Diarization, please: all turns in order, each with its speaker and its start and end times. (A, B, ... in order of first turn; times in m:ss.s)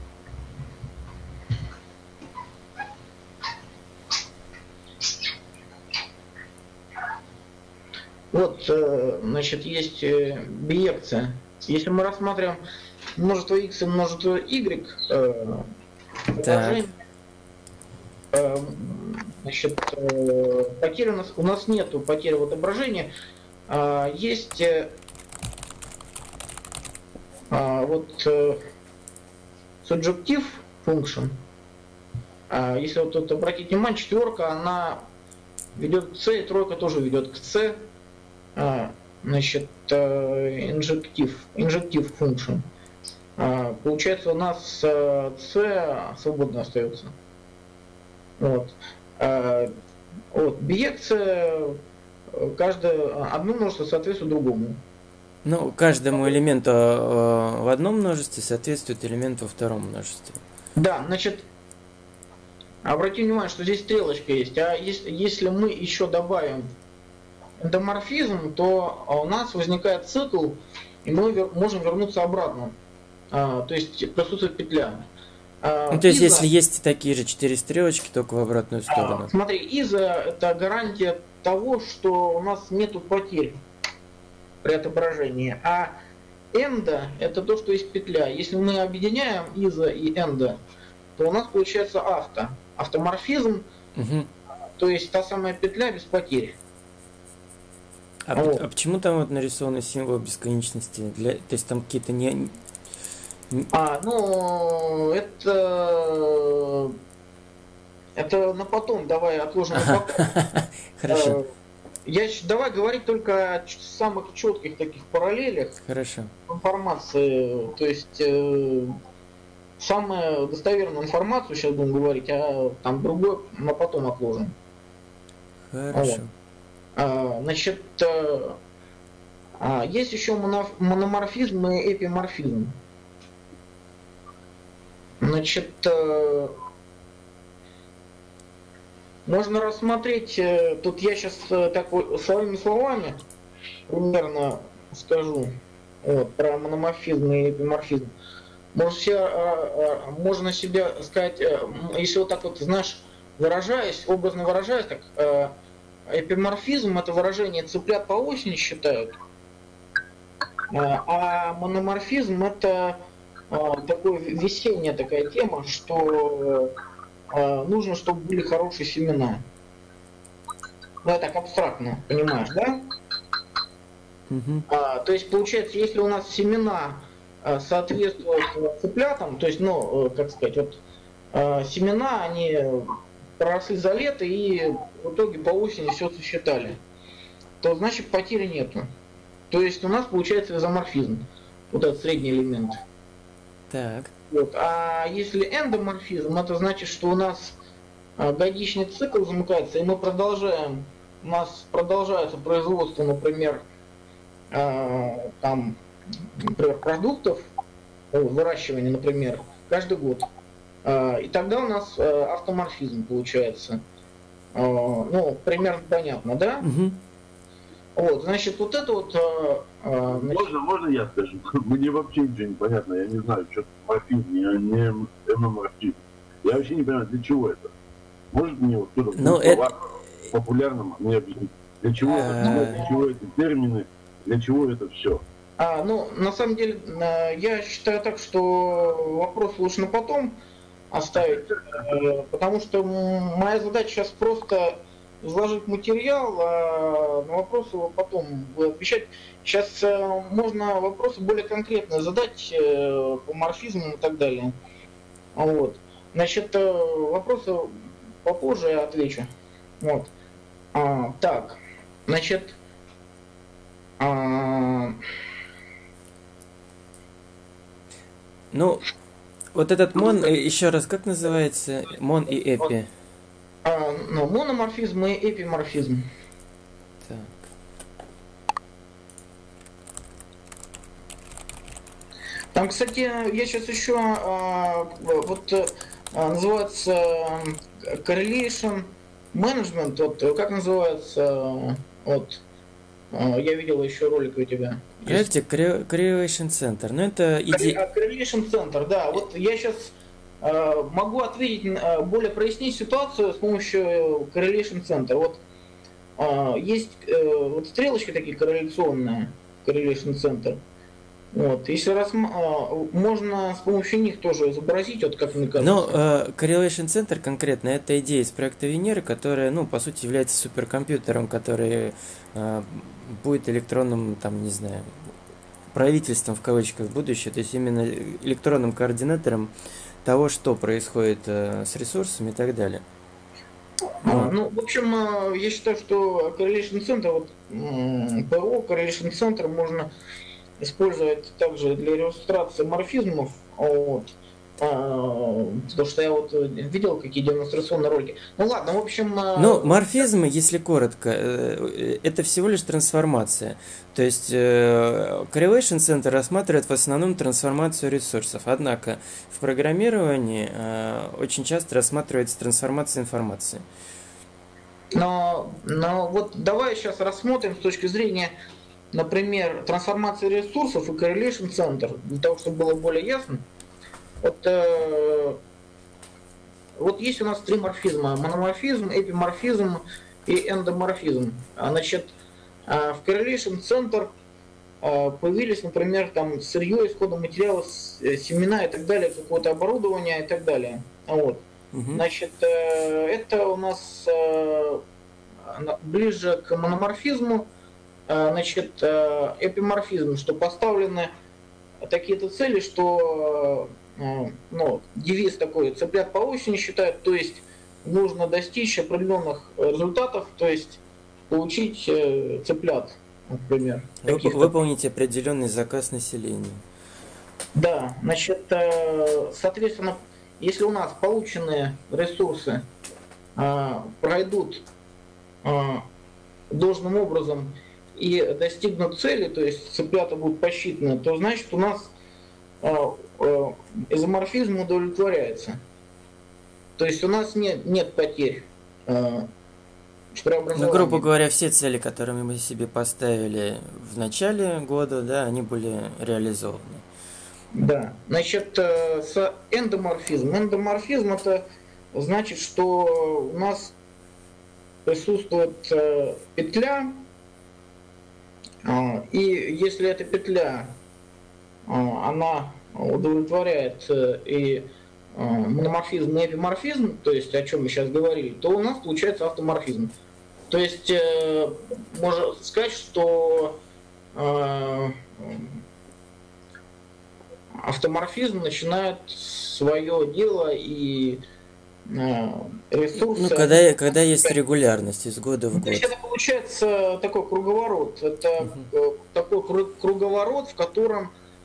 0:08.3-0:12.6 A
0:13.2-0:15.7 A
0:16.3-0:17.0 A
0:16.4-0:16.8 B
0:18.3-0:23.1 A
0:23.7-0:25.0 A
0:27.5-0:28.6 A
0:29.8-0:31.4 A
0:32.5-0:35.0 A
0:35.8-0:37.9 A
0:38.5-0:42.6 A
0:43.4-0:47.1 A
0:48.4-0:49.7 A
0:50.3-0:54.8 A
0:55.4-1:00.4 B
1:00.8-1:01.4 A
1:02.8-1:06.7 A
1:07.6-1:12.7 A
1:13.3-1:15.0 A
1:15.6-1:16.5 A
1:15.9-1:19.3 B
1:18.9-1:23.6 A
1:24.6-1:26.0 A
1:26.5-1:30.6 A
1:31.2-1:33.6 A
1:34.0-1:34.3 B
1:34.8-1:36.6 A
1:38.2-1:42.6 B
1:38.3-1:38.6 A
1:43.7-1:46.9 A
1:48.2-1:50.2 A
1:49.7-1:51.4 B
1:51.1-1:51.4 A
1:52.0-1:55.8 A
1:55.8-1:56.3 B
1:56.5-1:58.9 A
1:59.8-2:04.5 A
2:05.7-2:06.3 B
2:05.9-2:06.2 A
2:06.9-2:08.6 A
2:09.6-2:12.8 A
2:15.2-2:16.5 A
2:19.2-2:23.2 A
2:23.9-2:28.1 A
2:28.7-2:35.5 A
2:36.1-2:39.1 A
2:40.7-2:46.7 A
2:47.3-2:49.4 A
2:51.0-2:52.8 A
2:54.3-2:54.6 B
2:54.7-3:00.8 A
3:01.3-3:06.8 A
3:07.6-3:08.9 A
3:09.5-3:12.8 A
3:13.7-3:14.1 B
3:14.3-3:17.6 A
3:18.2-3:23.6 A
3:24.5-3:25.8 A
3:26.3-3:27.4 A
3:28.1-3:30.3 A
3:30.8-3:33.8 A
3:34.5-3:36.6 A
3:36.6-3:37.0 B
3:37.9-3:40.5 A
3:40.1-3:47.7 C
3:48.3-3:49.8 C
3:49.2-3:49.6 B
3:50.3-3:55.2 C
3:52.0-3:52.8 B
3:52.0-3:52.9 A
3:55.6-4:00.4 A
4:00.9-4:14.6 A
4:15.3-4:20.1 A
4:20.7-4:22.6 A
4:24.0-4:25.0 A
4:28.5-4:28.9 B
4:29.5-4:32.9 B
4:33.6-4:36.0 A
4:37.0-4:37.4 B
4:42.5-4:52.4 A
4:53.1-4:55.3 A
4:55.0-4:57.8 B
4:57.5-5:05.4 A
5:06.2-5:10.6 A
5:11.3-5:16.0 A
5:15.6-5:24.9 B
5:25.7-5:29.5 B
5:30.0-5:32.8 B
5:34.0-5:39.9 A
5:34.0-5:34.3 B
5:40.6-5:49.8 A
5:49.4-6:03.6 B
6:04.9-6:08.3 A
6:08.9-6:13.4 A
6:14.2-6:15.4 A
6:16.8-6:22.1 A
6:22.7-6:24.1 A
6:24.8-6:34.8 A
6:31.7-6:32.0 B
6:35.4-6:37.5 A
6:38.1-6:41.1 A
6:41.8-6:54.5 A
6:54.0-6:56.6 B
6:57.5-7:02.6 A
7:03.4-7:04.6 A
7:05.4-7:05.9 A
7:06.5-7:11.9 A
7:12.6-7:15.6 A
7:16.8-7:19.3 A
7:20.1-7:21.1 A
7:20.5-7:26.8 B
7:27.5-7:33.7 A
7:34.8-7:37.0 A
7:38.6-7:40.8 A
7:41.7-7:49.9 A
7:50.5-7:53.6 A
7:54.1-7:55.6 A
7:57.6-8:01.2 A
8:01.9-8:03.6 A
8:03.1-8:05.9 B
8:05.6-8:11.1 A
8:08.4-8:08.7 B